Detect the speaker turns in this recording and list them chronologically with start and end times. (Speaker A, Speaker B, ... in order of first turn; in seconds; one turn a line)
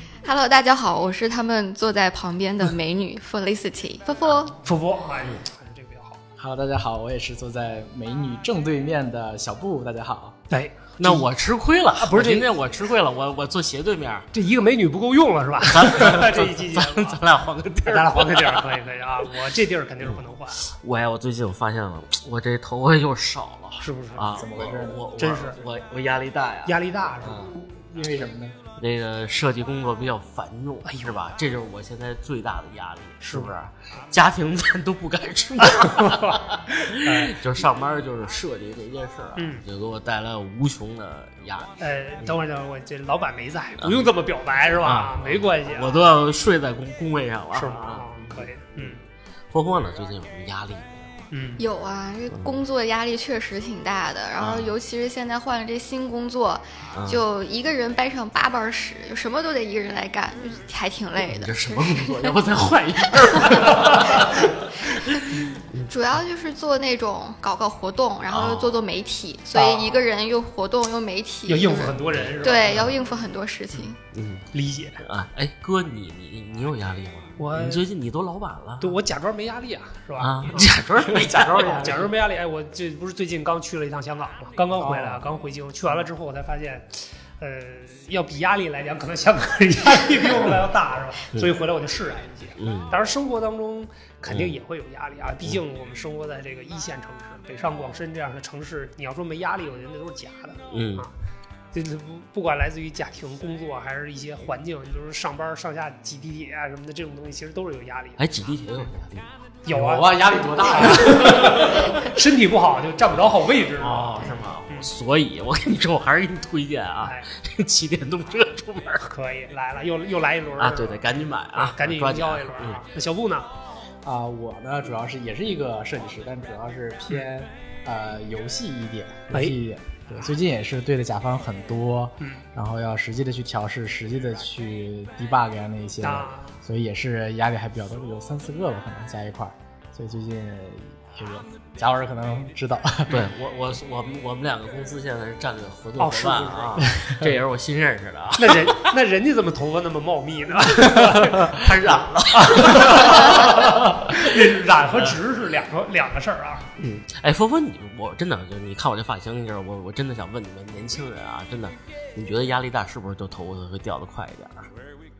Speaker A: 0.2-4.6
Speaker B: 4.5-6.2
Speaker C: 6.4-10.4
Speaker B: 10.5-11.3
Speaker D: 11.0-14.3
Speaker B: 12.0-12.5
Speaker B: 14.3-17.2
Speaker D: 15.7-18.8
Speaker B: 17.9-20.6
Speaker D: 20.0-27.5
Speaker B: 23.8-24.3
Speaker C: 24.2-25.0
Speaker B: 25.2-25.6
Speaker B: 26.6-27.5
Speaker C: 27.5-28.6
Speaker D: 28.8-42.4
Speaker B: 30.8-31.2
Speaker B: 33.2-33.5
Speaker B: 35.6-37.4
Speaker B: 39.4-39.6
Speaker B: 41.8-46.1
Speaker D: 43.8-44.1
Speaker D: 44.8-49.0
Speaker B: 47.5-49.0
Speaker D: 49.5-51.2
Speaker B: 51.3-51.6
Speaker A: 51.6-62.4
Speaker D: 54.4-54.8
Speaker D: 56.9-57.2
Speaker D: 61.2-65.9
Speaker A: 63.2-64.5
Speaker B: 63.7-64.2
Speaker A: 65.9-74.0
Speaker D: 68.3-68.8
Speaker B: 69.5-70.0
Speaker B: 71.5-73.0
Speaker D: 72.2-72.7
Speaker D: 74.1-74.5
Speaker B: 74.5-75.0
Speaker D: 75.0-79.0
Speaker B: 77.4-77.9
Speaker B: 78.8-80.8
Speaker D: 80.2-82.0
Speaker C: 81.0-82.1
Speaker B: 81.3-101.1
Speaker C: 84.8-85.2
Speaker D: 92.6-93.0
Speaker D: 100.7-101.1
Speaker B: 101.7-108.4
Speaker D: 108.2-109.5
Speaker B: 109.6-114.9
Speaker C: 109.7-111.8
Speaker D: 110.8-111.8
Speaker D: 113.8-119.1
Speaker B: 117.0-117.3
Speaker B: 119.0-123.5
Speaker D: 120.6-122.8
Speaker C: 124.0-143.2
Speaker B: 129.3-129.6
Speaker B: 132.2-132.5
Speaker B: 136.0-136.6
Speaker D: 143.1-148.9
Speaker B: 146.0-147.2
Speaker B: 148.4-156.7
Speaker C: 150.8-151.5
Speaker D: 151.5-154.2
Speaker D: 154.9-155.2
Speaker D: 156.8-164.7